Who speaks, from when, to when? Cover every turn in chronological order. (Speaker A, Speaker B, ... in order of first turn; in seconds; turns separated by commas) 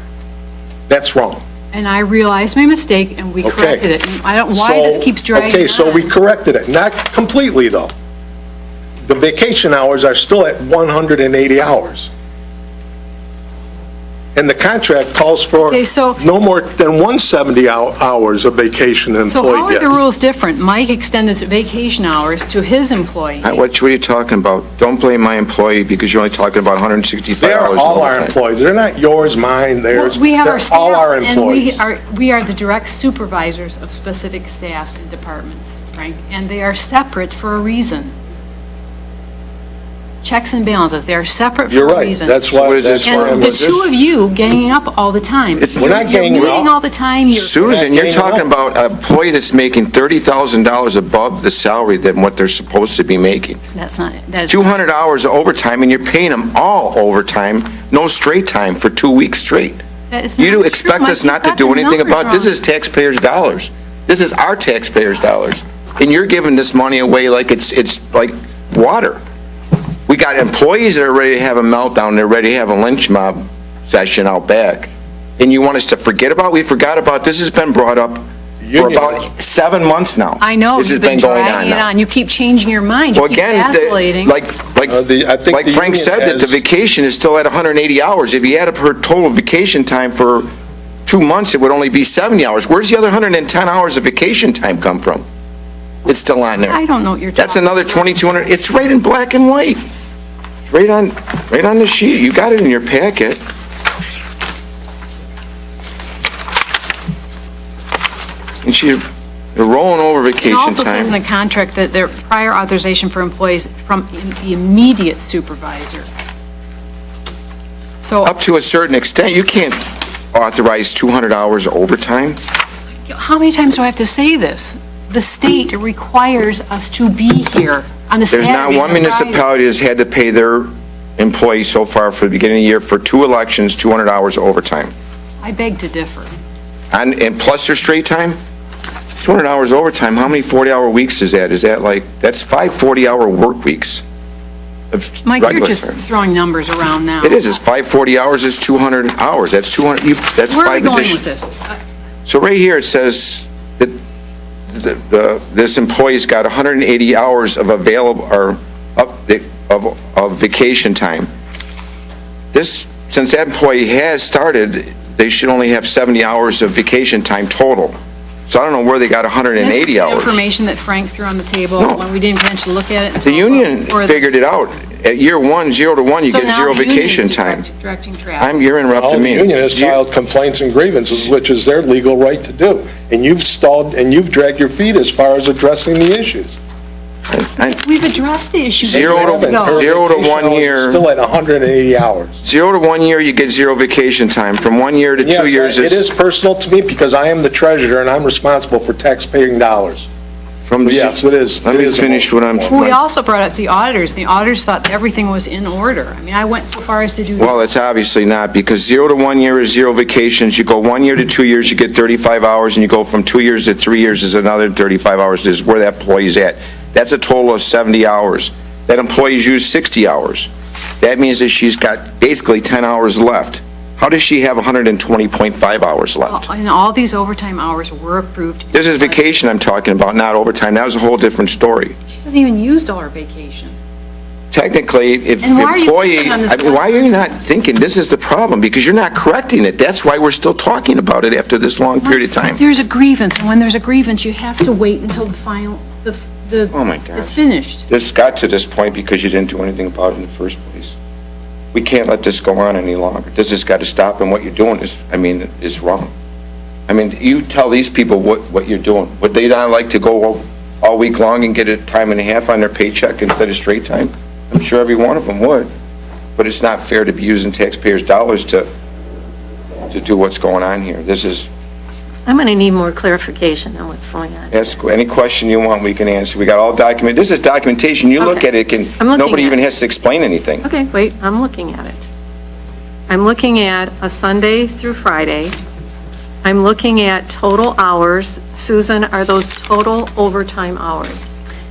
Speaker A: 0.9-1.4, Speaker B: 1.7-6.1, Speaker A: 3.4-3.9, Speaker A: 4.5-7.9, Speaker A: 9.1-12.1, Speaker A: 14.3-19.9, Speaker B: 15.7-16.2, Speaker B: 19.3-23.6, Speaker C: 23.4-28.4, Speaker A: 27.4-31.8, Speaker B: 29.9-38.1, Speaker B: 40.2-42.5, Speaker A: 41.7-43.8, Speaker C: 42.5-43.9, Speaker B: 43.0-47.7, Speaker C: 45.6-46.6, Speaker A: 45.7-46.7, Speaker C: 47.3-53.6, Speaker A: 47.6-48.5, Speaker B: 53.7-54.7, Speaker C: 54.5-59.8, Speaker B: 60.1-62.5, Speaker C: 60.4-69.2, Speaker C: 70.1-78.2, Speaker A: 78.6-79.2, Speaker C: 78.8-81.9, Speaker B: 80.4-84.3, Speaker C: 83.2-90.5, Speaker A: 84.9-86.6, Speaker C: 91.1-95.2, Speaker C: 96.0-96.8, Speaker B: 96.7-98.3, Speaker C: 97.4-99.8, Speaker C: 100.7-103.4, Speaker C: 108.6-109.0, Speaker C: 109.5-111.2, Speaker B: 110.4-116.1, Speaker B: 118.0-118.3, Speaker C: 118.2-122.4, Speaker B: 123.0-129.4, Speaker C: 128.3-134.9, Speaker B: 135.4-136.3, Speaker C: 136.9-138.4, Speaker C: 139.2-144.0, Speaker C: 144.9-146.0, Speaker B: 145.2-147.6, Speaker C: 147.2-151.2, Speaker B: 150.5-151.8, Speaker C: 152.3-154.0, Speaker C: 154.7-161.3, Speaker C: 162.5-168.0, Speaker C: 168.5-170.4, Speaker B: 169.6-174.3, Speaker C: 173.2-177.7, Speaker B: 176.3-178.6, Speaker C: 178.4-180.0, Speaker A: 178.9-186.6, Speaker C: 187.3-187.8, Speaker B: 187.6-189.8, Speaker C: 188.8-191.0, Speaker A: 188.9-192.4, Speaker C: 192.4-196.1, Speaker A: 195.2-200.1, Speaker C: 200.7-203.0, Speaker A: 200.8-202.7, Speaker B: 202.7-207.6, Speaker C: 207.4-226.5, Speaker B: 226.3-229.4, Speaker C: 228.7-232.0, Speaker B: 232.1-233.8, Speaker C: 234.5-242.6, Speaker B: 235.4-237.4, Speaker B: 242.0-247.8, Speaker C: 246.7-251.0, Speaker C: 251.7-256.1, Speaker C: 256.9-265.7, Speaker C: 266.4-268.7, Speaker C: 269.9-271.5, Speaker D: 272.3-274.7, Speaker C: 274.5-280.6, Speaker D: 278.2-278.5, Speaker D: 279.0-279.6, Speaker D: 280.6-282.0, Speaker D: 283.1-285.6, Speaker D: 286.4-291.3